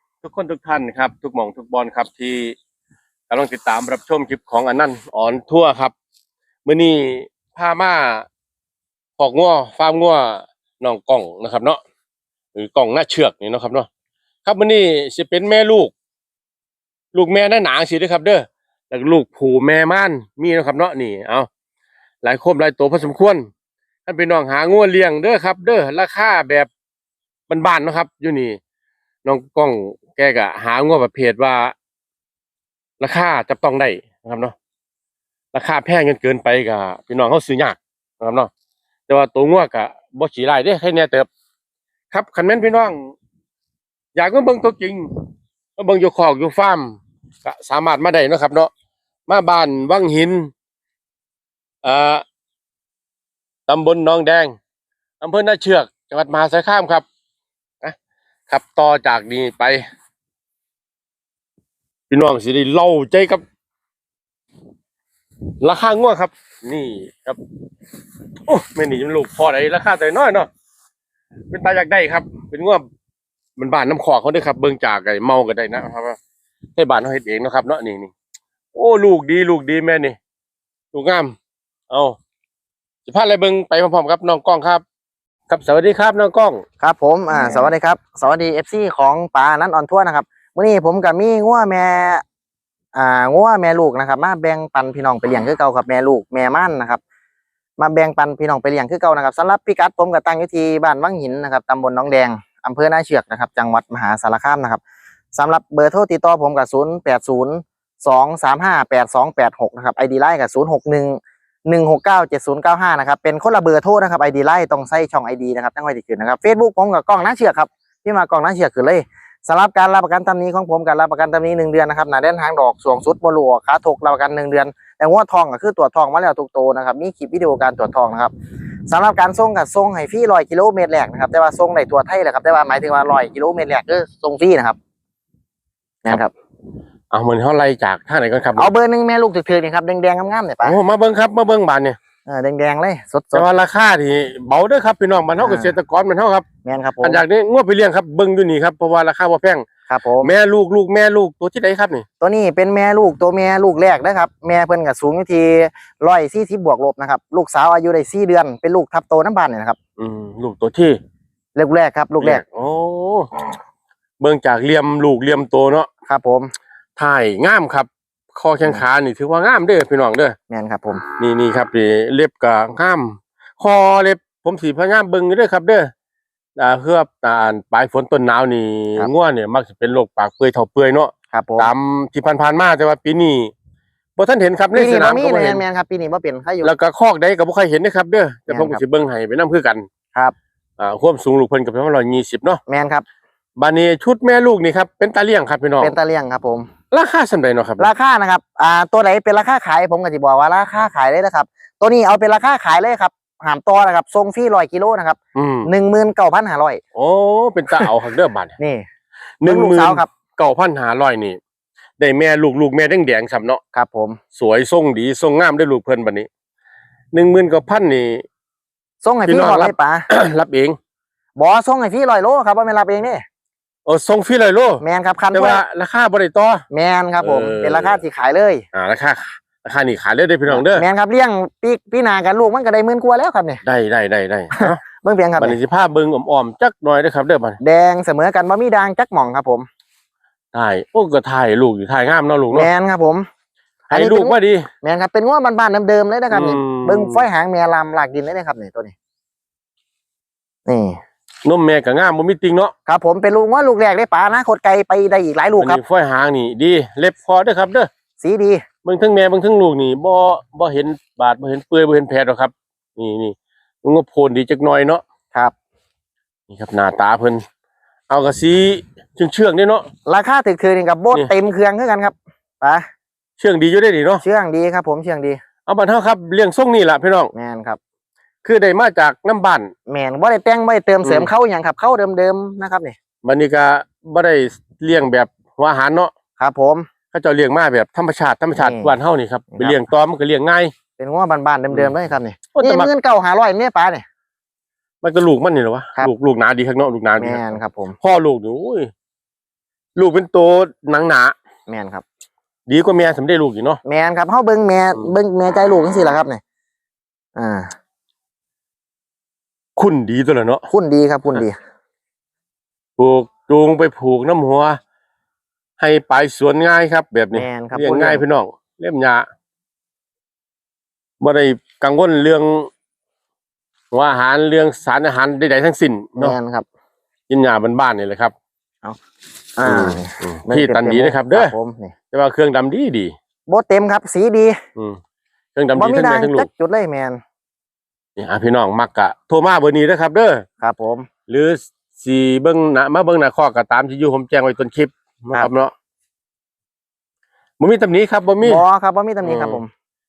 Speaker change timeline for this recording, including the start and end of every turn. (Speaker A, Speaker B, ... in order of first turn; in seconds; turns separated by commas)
Speaker A: 0.2-2.6, Speaker A: 3.3-5.9, Speaker A: 6.7-8.3, Speaker A: 9.2-11.8, Speaker A: 12.6-13.9, Speaker A: 14.4-15.9, Speaker A: 17.1-21.5, Speaker A: 22.2-23.5, Speaker A: 24.1-26.7, Speaker A: 27.5-28.6, Speaker A: 29.2-31.8, Speaker A: 33.0-34.5, Speaker A: 35.5-38.5, Speaker A: 39.1-41.3, Speaker A: 42.1-43.1, Speaker A: 44.1-45.1, Speaker A: 45.8-48.7, Speaker A: 49.3-50.5, Speaker A: 51.8-52.2, Speaker A: 53.7-54.6, Speaker A: 55.2-57.0, Speaker A: 58.5-59.8, Speaker A: 62.1-63.4, Speaker A: 65.6-67.4, Speaker A: 68.5-70.5, Speaker A: 71.5-72.8, Speaker A: 73.6-76.2, Speaker A: 76.8-78.1, Speaker A: 78.7-80.2, Speaker A: 80.9-81.4, Speaker A: 81.9-82.2, Speaker A: 83.1-84.8, Speaker A: 85.5-86.6, Speaker B: 86.8-92.2, Speaker B: 93.0-97.0, Speaker B: 97.8-104.8, Speaker B: 105.3-128.3, Speaker B: 128.9-134.8, Speaker B: 136.1-136.3, Speaker A: 137.1-138.7, Speaker B: 138.6-140.8, Speaker A: 140.6-142.0, Speaker B: 142.3-143.5, Speaker A: 143.3-146.5, Speaker B: 145.4-145.8, Speaker B: 146.7-147.2, Speaker A: 147.0-149.7, Speaker B: 149.9-150.3, Speaker A: 150.2-152.1, Speaker B: 152.2-159.8, Speaker A: 160.0-161.0, Speaker B: 161.6-162.4, Speaker A: 162.2-163.3, Speaker A: 164.2-165.9, Speaker B: 166.1-166.5, Speaker A: 167.0-170.4, Speaker B: 170.5-171.0, Speaker A: 171.1-175.9, Speaker A: 176.6-183.5, Speaker B: 181.3-181.7, Speaker A: 184.2-185.6, Speaker B: 184.7-186.7, Speaker A: 186.6-189.9, Speaker B: 188.5-188.8, Speaker A: 190.8-192.6, Speaker B: 192.7-193.1, Speaker A: 193.6-195.9, Speaker B: 195.8-196.7, Speaker A: 196.9-197.9, Speaker B: 197.8-206.8, Speaker A: 205.3-205.7, Speaker A: 206.9-208.6, Speaker B: 208.6-208.9, Speaker A: 209.4-211.4, Speaker B: 209.4-210.1, Speaker A: 212.0-213.6, Speaker B: 213.7-214.2, Speaker A: 214.3-216.3, Speaker A: 217.1-218.2, Speaker B: 219.0-220.1, Speaker A: 219.3-220.8, Speaker B: 221.4-223.2, Speaker A: 223.9-224.8, Speaker B: 224.8-225.6, Speaker A: 225.3-226.7, Speaker B: 226.7-228.7, Speaker A: 227.2-228.0, Speaker A: 228.7-230.8, Speaker B: 230.5-233.6, Speaker A: 233.6-234.8, Speaker B: 234.5-235.6, Speaker A: 235.4-237.6, Speaker B: 237.6-239.7, Speaker A: 240.5-242.7, Speaker B: 242.5-243.3, Speaker B: 243.9-248.9, Speaker A: 243.9-244.7, Speaker A: 246.3-247.3, Speaker B: 250.7-251.0, Speaker A: 251.4-252.7, Speaker B: 252.9-255.8, Speaker A: 255.6-257.9, Speaker B: 258.2-258.6, Speaker A: 258.9-265.0, Speaker A: 266.5-267.4, Speaker A: 268.1-269.9, Speaker B: 270.1-272.9, Speaker A: 273.4-274.2, Speaker B: 274.2-275.4, Speaker A: 275.7-277.3, Speaker B: 277.3-277.8, Speaker A: 278.4-279.7, Speaker B: 279.9-282.9, Speaker A: 281.0-281.3, Speaker A: 283.2-286.1, Speaker B: 286.4-286.9, Speaker A: 287.1-290.7, Speaker B: 288.6-288.9, Speaker B: 291.0-294.0, Speaker A: 292.5-292.9, Speaker A: 295.0-298.9, Speaker B: 297.2-298.0, Speaker A: 300.0-301.3, Speaker B: 301.7-302.0, Speaker A: 302.7-303.8, Speaker B: 303.9-306.4, Speaker B: 307.4-307.7, Speaker A: 309.8-310.7, Speaker B: 310.7-311.6, Speaker A: 313.0-314.8, Speaker A: 315.8-319.3, Speaker B: 317.3-318.2, Speaker A: 321.2-322.7, Speaker A: 323.9-326.4, Speaker B: 326.2-326.7, Speaker A: 327.3-328.3, Speaker B: 329.6-331.9, Speaker A: 329.6-331.5, Speaker A: 332.1-333.1, Speaker B: 333.5-334.6, Speaker A: 335.6-336.5, Speaker B: 335.8-337.2, Speaker A: 338.2-340.4, Speaker B: 340.6-341.1, Speaker A: 341.3-345.7, Speaker A: 347.6-348.6, Speaker B: 348.4-349.7, Speaker A: 349.2-349.6